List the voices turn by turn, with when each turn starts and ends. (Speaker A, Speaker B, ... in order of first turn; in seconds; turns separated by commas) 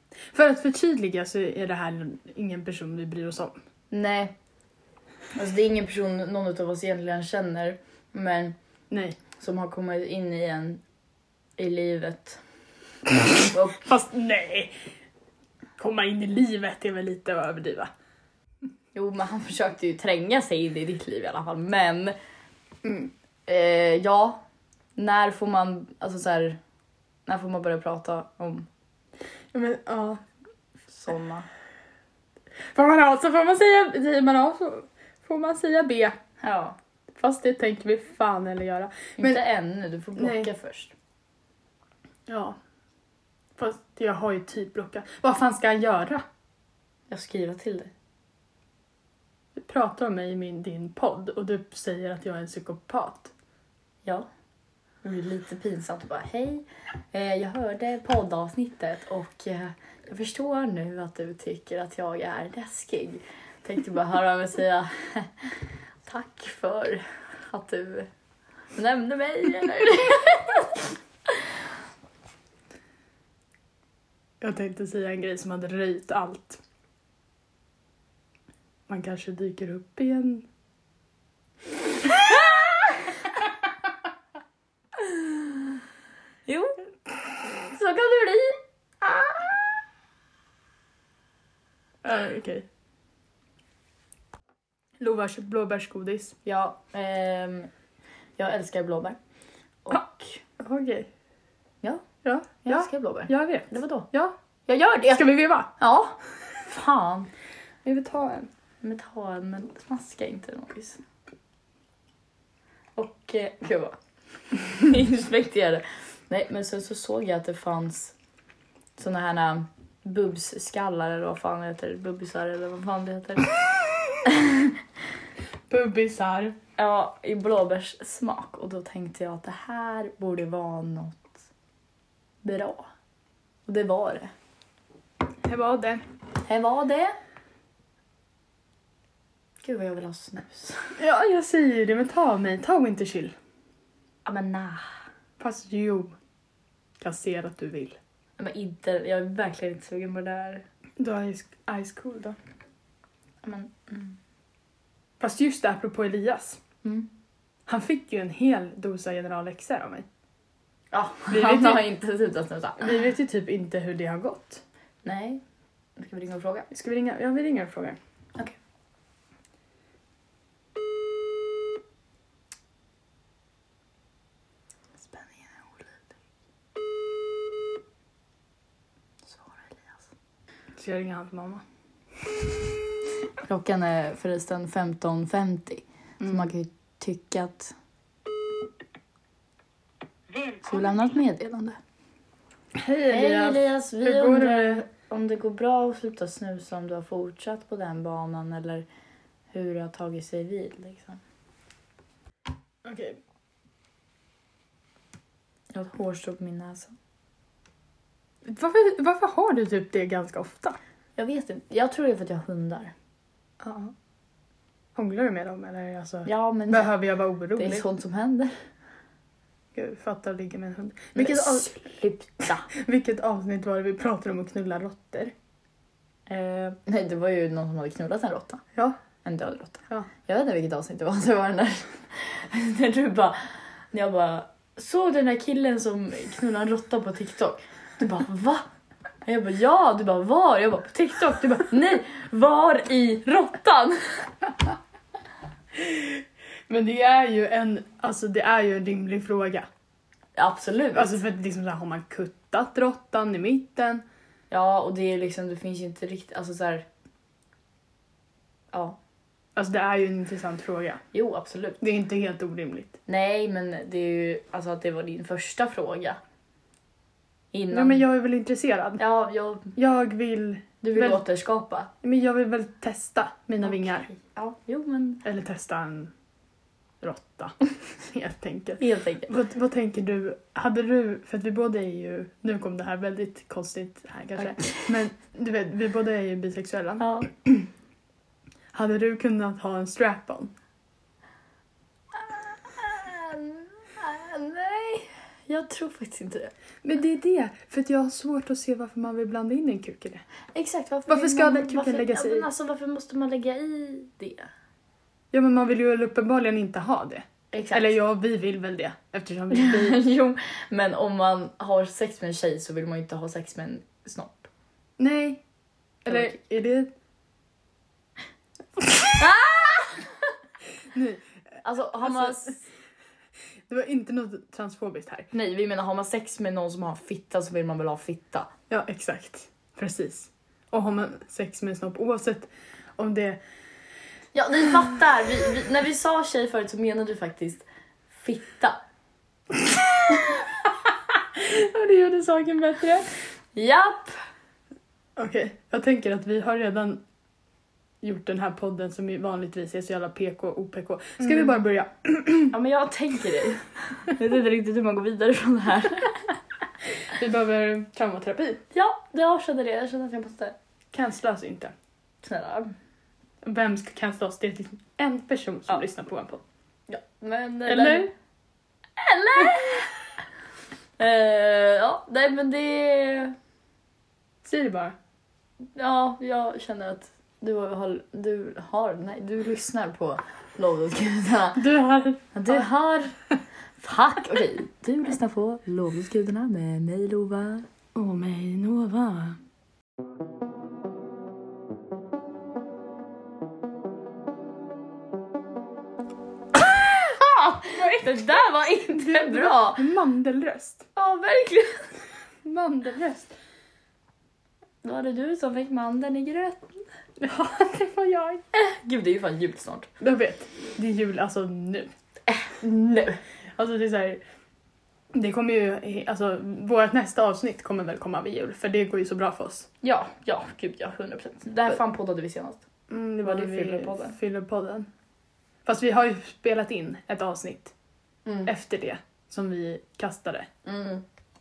Speaker A: 0.3-3.6, Speaker B: 3.9-4.3, Speaker B: 5.3-8.6, Speaker A: 8.9-9.2, Speaker B: 9.4-10.8, Speaker B: 11.6-12.4, Speaker B: 13.4-13.8, Speaker A: 13.8-14.7, Speaker A: 15.8-17.9, Speaker B: 18.9-22.1, Speaker B: 23.5-24.4, Speaker B: 25.0-26.6, Speaker B: 27.3-28.7, Speaker A: 29.5-30.2, Speaker B: 30.9-31.5, Speaker A: 32.6-36.2, Speaker B: 36.4-36.8, Speaker A: 37.1-39.4, Speaker B: 39.2-40.9, Speaker A: 40.2-40.5, Speaker A: 42.3-42.6, Speaker A: 43.6-46.2, Speaker B: 47.1-47.9, Speaker A: 49.6-53.3, Speaker B: 55.0-65.5, Speaker B: 66.1-68.1, Speaker B: 68.8-70.7, Speaker A: 74.4-76.6, Speaker A: 78.9-80.5, Speaker B: 82.0-83.3, Speaker B: 85.0-85.6, Speaker B: 86.5-86.8, Speaker B: 87.4-89.6, Speaker A: 92.0-92.7, Speaker A: 95.0-96.4, Speaker B: 96.5-97.7, Speaker B: 98.4-99.2, Speaker B: 99.8-100.4, Speaker A: 100.6-101.1, Speaker A: 102.2-104.3, Speaker B: 102.6-104.1, Speaker B: 104.7-107.3, Speaker A: 105.1-105.7, Speaker A: 107.8-108.5, Speaker B: 108.8-111.0, Speaker B: 113.0-114.0, Speaker B: 114.5-118.2, Speaker B: 119.0-123.6, Speaker B: 124.2-124.8, Speaker A: 125.7-126.6, Speaker B: 126.8-131.4, Speaker B: 132.4-132.9, Speaker B: 133.7-134.3, Speaker A: 135.4-136.0, Speaker B: 136.4-137.2, Speaker B: 139.6-141.0, Speaker A: 141.0-143.4, Speaker B: 144.2-144.9, Speaker A: 145.4-146.2, Speaker A: 147.0-148.0, Speaker B: 148.4-150.7, Speaker A: 151.0-152.4, Speaker B: 153.4-154.2, Speaker A: 155.2-156.6, Speaker A: 157.7-160.1, Speaker B: 160.9-163.0, Speaker A: 161.3-161.9, Speaker A: 162.8-164.6, Speaker B: 165.0-165.4, Speaker B: 166.0-166.7, Speaker A: 166.7-168.0, Speaker B: 175.1-175.5, Speaker B: 179.3-180.0, Speaker A: 180.8-181.6, Speaker B: 183.4-187.7, Speaker A: 186.2-186.5, Speaker B: 190.6-191.8, Speaker A: 192.7-194.8, Speaker B: 193.1-198.8, Speaker B: 199.5-201.2, Speaker A: 202.8-203.2, Speaker B: 205.7-206.9, Speaker A: 208.4-210.8, Speaker B: 211.2-212.9, Speaker A: 213.6-213.9, Speaker A: 215.0-217.8, Speaker B: 216.3-216.9, Speaker B: 217.6-218.6, Speaker A: 219.8-221.7, Speaker B: 221.2-222.7, Speaker A: 222.7-225.3, Speaker B: 226.3-228.6, Speaker B: 229.2-238.6, Speaker B: 239.3-244.3, Speaker A: 245.7-249.7, Speaker B: 250.4-251.2, Speaker A: 250.9-254.0, Speaker B: 254.5-256.9, Speaker B: 258.7-259.0, Speaker A: 259.6-261.0, Speaker B: 261.1-261.8, Speaker A: 261.8-263.0, Speaker B: 263.1-266.2, Speaker B: 267.5-268.0, Speaker A: 267.7-269.0, Speaker B: 269.0-269.7, Speaker A: 269.8-271.2, Speaker B: 270.8-271.9, Speaker A: 272.0-274.1, Speaker B: 273.6-275.2, Speaker A: 275.2-276.1, Speaker A: 277.0-287.7, Speaker B: 278.8-279.3, Speaker B: 284.4-284.9, Speaker B: 287.0-287.3, Speaker A: 288.7-290.5, Speaker B: 292.1-296.5, Speaker A: 296.8-300.2, Speaker B: 300.5-304.5, Speaker A: 301.1-302.5, Speaker A: 305.3-310.0, Speaker B: 307.5-307.9, Speaker B: 309.5-314.5, Speaker A: 315.0-315.4, Speaker A: 316.1-316.9, Speaker B: 316.1-316.4, Speaker B: 319.1-320.2, Speaker A: 320.9-321.2, Speaker B: 321.6-322.6, Speaker A: 322.0-322.5, Speaker A: 323.7-325.3, Speaker B: 325.3-328.5, Speaker A: 328.7-333.4, Speaker B: 334.3-337.6, Speaker B: 338.2-338.8, Speaker A: 341.3-343.1, Speaker B: 343.6-344.2, Speaker A: 345.2-347.0, Speaker A: 348.0-352.5, Speaker B: 352.5-356.4, Speaker A: 357.1-358.6, Speaker B: 358.7-360.6, Speaker A: 360.9-361.7, Speaker B: 362.2-362.8, Speaker A: 363.4-366.4, Speaker B: 366.9-368.1, Speaker A: 367.7-368.1, Speaker B: 369.0-370.0, Speaker B: 371.0-373.4, Speaker A: 374.4-375.0, Speaker B: 375.8-381.6, Speaker A: 381.6-382.7, Speaker B: 382.3-383.2, Speaker B: 383.8-387.7, Speaker A: 387.9-389.4, Speaker B: 396.6-399.8, Speaker A: 397.8-398.3, Speaker A: 398.9-400.9, Speaker B: 401.0-401.9, Speaker A: 402.4-403.3, Speaker B: 404.8-406.8, Speaker A: 407.2-408.4, Speaker B: 408.5-409.9, Speaker A: 410.0-411.9, Speaker B: 412.3-413.2, Speaker A: 413.6-414.2, Speaker A: 415.1-419.7, Speaker B: 419.8-422.6, Speaker A: 422.9-424.9, Speaker B: 423.2-424.2, Speaker A: 425.7-427.7, Speaker B: 428.3-428.5, Speaker A: 428.5-430.5, Speaker B: 430.6-431.0